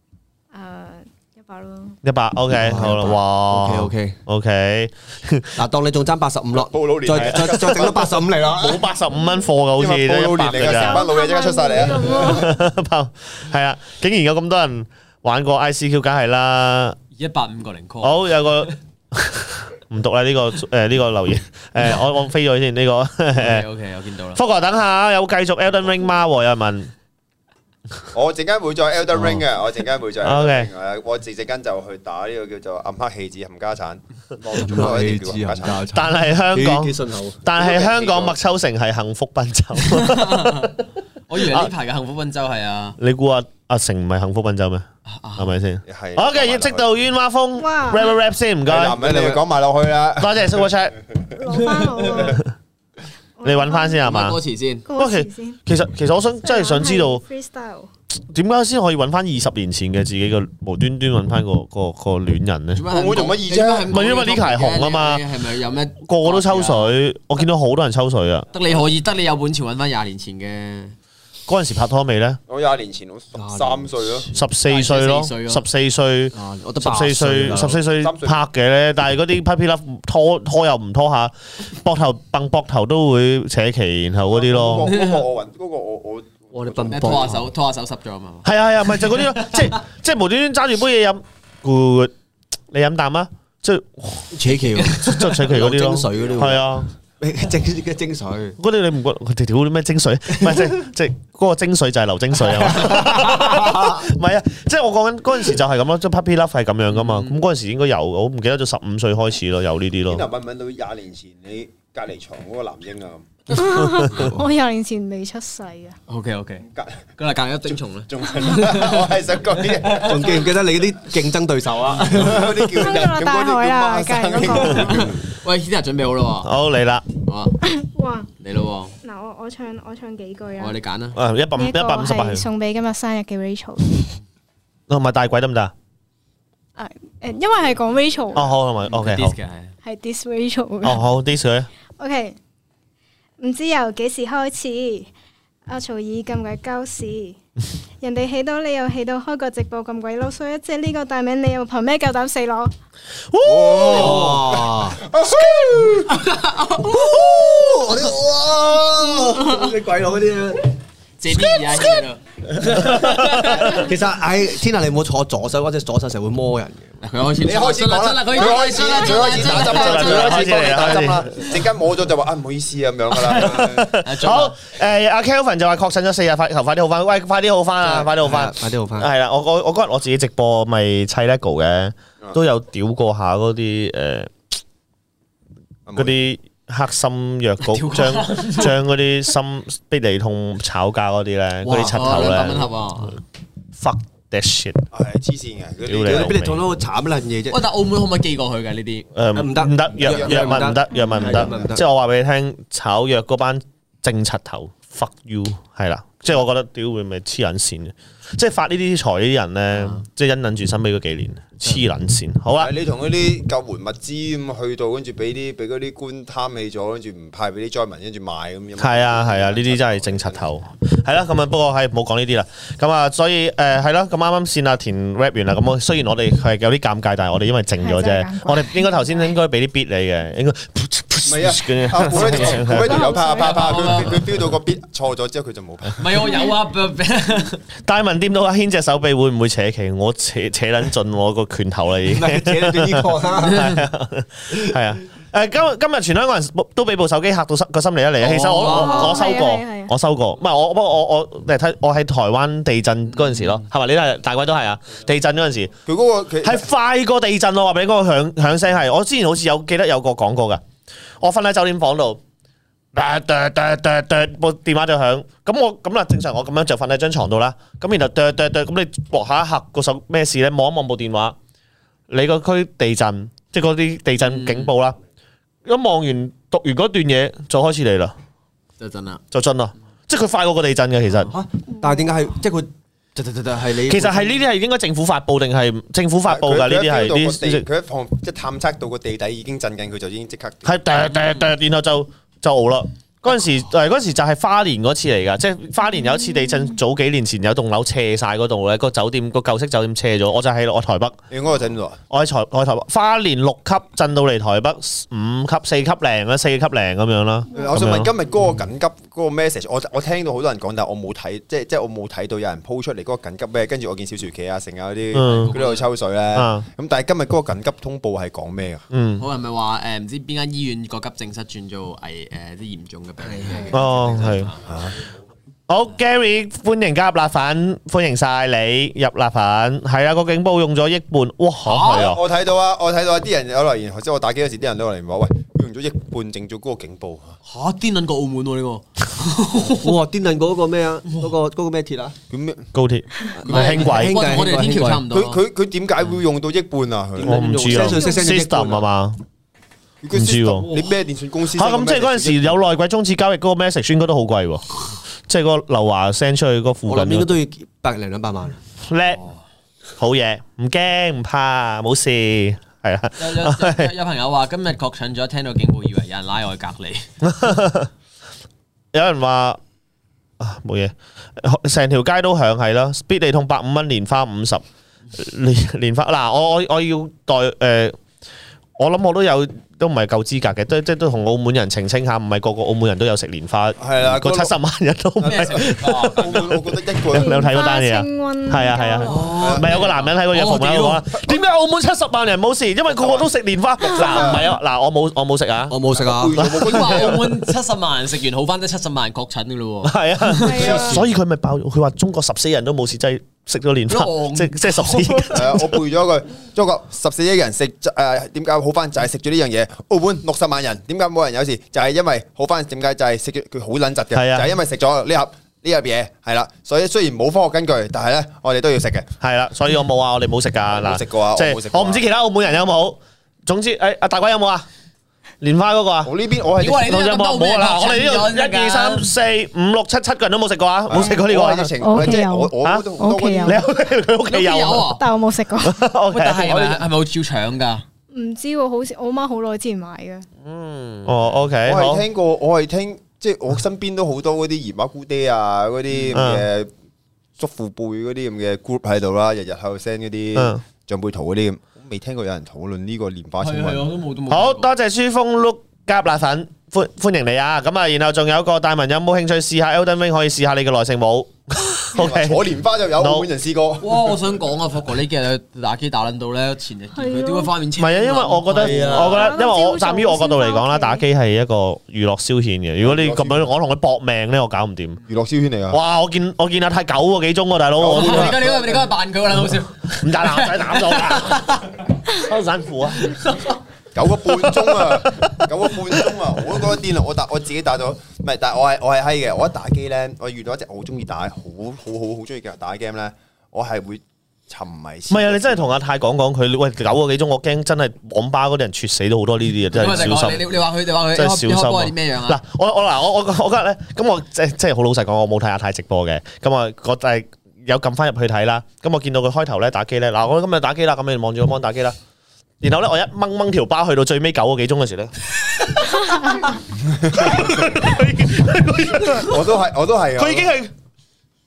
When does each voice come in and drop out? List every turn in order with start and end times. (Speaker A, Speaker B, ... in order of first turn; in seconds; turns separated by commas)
Speaker A: 0.5-2.0, Speaker B: 2.0-5.6, Speaker C: 2.5-4.2, Speaker C: 5.6-8.8, Speaker D: 6.5-8.3, Speaker B: 7.2-8.0, Speaker B: 8.6-11.1, Speaker A: 9.1-9.4, Speaker D: 9.8-12.5, Speaker A: 10.6-12.5, Speaker B: 12.1-17.0, Speaker E: 17.2-18.7, Speaker B: 18.0-23.7, Speaker E: 23.4-24.4, Speaker B: 24.3-26.9, Speaker D: 28.1-35.9, Speaker B: 30.2-30.7, Speaker C: 34.5-37.4, Speaker B: 35.9-40.8, Speaker D: 37.5-38.4, Speaker E: 39.8-40.8, Speaker E: 41.3-43.0, Speaker B: 41.4-41.7, Speaker B: 43.0-49.4, Speaker E: 45.1-45.5, Speaker D: 45.9-46.9, Speaker A: 47.6-48.1, Speaker D: 48.7-50.6, Speaker B: 50.2-51.0, Speaker A: 51.4-52.4, Speaker A: 53.4-54.1, Speaker B: 53.4-54.4, Speaker E: 54.0-54.9, Speaker A: 54.9-55.6, Speaker B: 55.0-57.2, Speaker A: 56.4-57.9, Speaker B: 58.3-62.8, Speaker E: 62.8-67.0, Speaker D: 62.9-64.0, Speaker B: 63.9-65.2, Speaker B: 66.0-68.5, Speaker E: 68.5-71.0, Speaker B: 71.5-72.4, Speaker D: 72.5-74.3, Speaker C: 73.3-74.3, Speaker B: 74.3-84.9, Speaker E: 74.7-75.6, Speaker C: 76.3-77.8, Speaker D: 77.5-78.4, Speaker D: 84.3-87.4, Speaker E: 84.8-85.2, Speaker C: 86.5-87.4, Speaker E: 86.9-89.7, Speaker B: 88.5-92.1, Speaker B: 92.7-94.4, Speaker C: 94.3-96.6, Speaker E: 94.8-95.1, Speaker B: 95.0-96.9, Speaker D: 96.2-96.6, Speaker C: 97.2-98.6, Speaker B: 98.6-110.3, Speaker C: 100.4-100.7, Speaker C: 102.4-104.0, Speaker E: 106.9-107.4, Speaker D: 110.1-113.4, Speaker A: 113.5-116.0, Speaker C: 113.5-114.4, Speaker E: 116.1-116.7, Speaker D: 116.7-117.0, Speaker E: 117.2-120.4, Speaker D: 117.7-120.4, Speaker C: 120.0-122.4, Speaker D: 122.0-125.2, Speaker A: 122.8-125.1, Speaker E: 125.0-126.5, Speaker B: 126.4-127.0, Speaker E: 127.3-127.6, Speaker A: 127.6-128.3, Speaker E: 128.4-129.0, Speaker A: 129.0-130.8, Speaker E: 130.6-131.2, Speaker B: 131.1-132.5, Speaker A: 131.6-134.1, Speaker B: 134.9-135.7, Speaker A: 136.8-138.5, Speaker B: 138.3-139.4, Speaker E: 138.9-139.7, Speaker A: 139.8-141.1, Speaker B: 140.8-141.7, Speaker A: 142.0-142.4, Speaker A: 143.4-145.1, Speaker A: 145.7-147.4, Speaker A: 148.0-152.7, Speaker B: 153.3-154.4, Speaker D: 153.4-156.2, Speaker C: 153.9-155.0, Speaker C: 156.7-160.7, Speaker E: 161.2-162.2, Speaker B: 161.3-161.8, Speaker C: 162.5-166.9, Speaker E: 162.7-163.8, Speaker B: 162.7-163.7, Speaker E: 167.0-171.1, Speaker D: 167.4-173.9, Speaker B: 169.4-171.3, Speaker E: 173.2-174.6, Speaker B: 173.5-184.3, Speaker C: 177.8-179.1, Speaker D: 185.9-186.2, Speaker B: 186.0-193.2, Speaker E: 187.6-188.8, Speaker C: 191.7-192.0, Speaker E: 191.8-193.2, Speaker B: 193.8-194.8, Speaker D: 194.9-196.4, Speaker B: 195.8-196.6, Speaker C: 196.0-197.6, Speaker E: 197.5-199.1, Speaker B: 199.2-212.8, Speaker C: 199.3-201.8, Speaker D: 212.6-220.5, Speaker B: 218.8-233.1, Speaker A: 227.8-229.2, Speaker D: 231.3-236.4, Speaker A: 232.6-233.8, Speaker E: 233.3-234.4, Speaker E: 236.0-237.6, Speaker B: 237.8-255.7, Speaker C: 242.1-243.8, Speaker E: 248.2-249.1, Speaker C: 248.3-249.1, Speaker A: 248.7-249.9, Speaker E: 253.2-253.6, Speaker D: 255.9-256.7, Speaker B: 256.4-260.6, Speaker B: 261.2-262.2, Speaker B: 262.9-271.4, Speaker B: 272.1-275.0, Speaker E: 274.2-274.7, Speaker B: 275.7-278.1, Speaker E: 278.8-279.2, Speaker B: 279.3-281.3, Speaker C: 281.3-284.3, Speaker B: 283.9-287.7, Speaker D: 286.3-290.8, Speaker B: 290.6-301.2, Speaker A: 296.4-296.7, Speaker D: 301.3-302.0, Speaker B: 302.1-308.1, Speaker D: 307.5-318.9, Speaker B: 315.1-315.6, Speaker E: 315.2-315.9, Speaker B: 316.3-316.7, Speaker B: 318.9-319.2, Speaker E: 319.2-324.6, Speaker C: 323.2-323.7, Speaker B: 323.7-324.5, Speaker D: 324.7-325.0, Speaker B: 325.7-332.2, Speaker E: 331.6-332.1, Speaker D: 331.9-337.4, Speaker E: 337.5-339.9, Speaker C: 339.6-342.2, Speaker D: 342.3-342.7, Speaker B: 342.7-344.2, Speaker C: 343.4-345.0, Speaker E: 343.4-345.4, Speaker D: 345.1-347.4, Speaker C: 347.2-348.8, Speaker B: 347.2-349.2, Speaker A: 347.9-348.2, Speaker D: 350.0-352.6, Speaker B: 350.1-350.7, Speaker B: 351.5-354.6, Speaker B: 355.3-357.3, Speaker C: 356.9-358.6, Speaker B: 358.9-359.2, Speaker B: 360.0-363.9, Speaker E: 363.2-367.1, Speaker B: 367.2-367.9, Speaker B: 368.9-369.6, Speaker B: 370.4-378.0, Speaker B: 378.8-395.8, Speaker D: 383.8-384.5, Speaker D: 385.2-387.4, Speaker E: 385.2-386.3, Speaker A: 387.1-389.4, Speaker C: 389.1-389.6, Speaker E: 389.1-391.0, Speaker D: 389.4-389.7, Speaker D: 392.9-393.3, Speaker D: 393.8-394.5, Speaker A: 394.0-394.3, Speaker C: 395.7-396.4, Speaker D: 395.9-397.4, Speaker B: 396.4-397.5, Speaker E: 396.6-400.6, Speaker B: 399.8-405.8, Speaker A: 400.4-401.0, Speaker D: 400.5-401.0, Speaker E: 403.9-405.6, Speaker D: 405.4-419.1, Speaker B: 414.1-414.5, Speaker B: 419.2-424.7, Speaker D: 420.7-422.1, Speaker B: 425.4-426.1, Speaker D: 426.0-426.9, Speaker E: 426.6-429.1, Speaker B: 426.7-432.9, Speaker D: 430.9-433.6, Speaker A: 431.8-433.6, Speaker B: 433.4-434.9, Speaker E: 434.3-435.0, Speaker A: 434.9-435.8, Speaker B: 435.6-436.7, Speaker E: 436.1-437.8, Speaker D: 436.5-436.8, Speaker A: 438.1-440.3, Speaker E: 440.4-441.2, Speaker B: 441.1-442.1, Speaker D: 441.6-446.7, Speaker B: 446.1-446.5, Speaker D: 447.4-453.9, Speaker B: 450.4-450.6, Speaker E: 453.4-454.7, Speaker B: 454.3-463.3, Speaker D: 461.9-464.2, Speaker E: 463.8-469.1, Speaker A: 466.9-467.5, Speaker B: 467.8-475.0, Speaker C: 468.6-469.2, Speaker A: 469.0-471.0, Speaker D: 472.8-473.5, Speaker D: 475.1-475.8, Speaker B: 475.7-478.4, Speaker D: 477.8-478.9, Speaker E: 477.9-481.8, Speaker B: 480.0-481.6, Speaker B: 482.1-483.2, Speaker E: 483.1-483.4, Speaker D: 483.9-495.7, Speaker B: 484.6-486.1, Speaker B: 495.1-500.5, Speaker E: 499.7-502.4, Speaker B: 501.1-512.0, Speaker B: 512.6-515.1, Speaker B: 515.9-516.4, Speaker D: 516.9-517.7, Speaker B: 517.1-519.6, Speaker D: 519.1-520.5, Speaker B: 520.1-520.7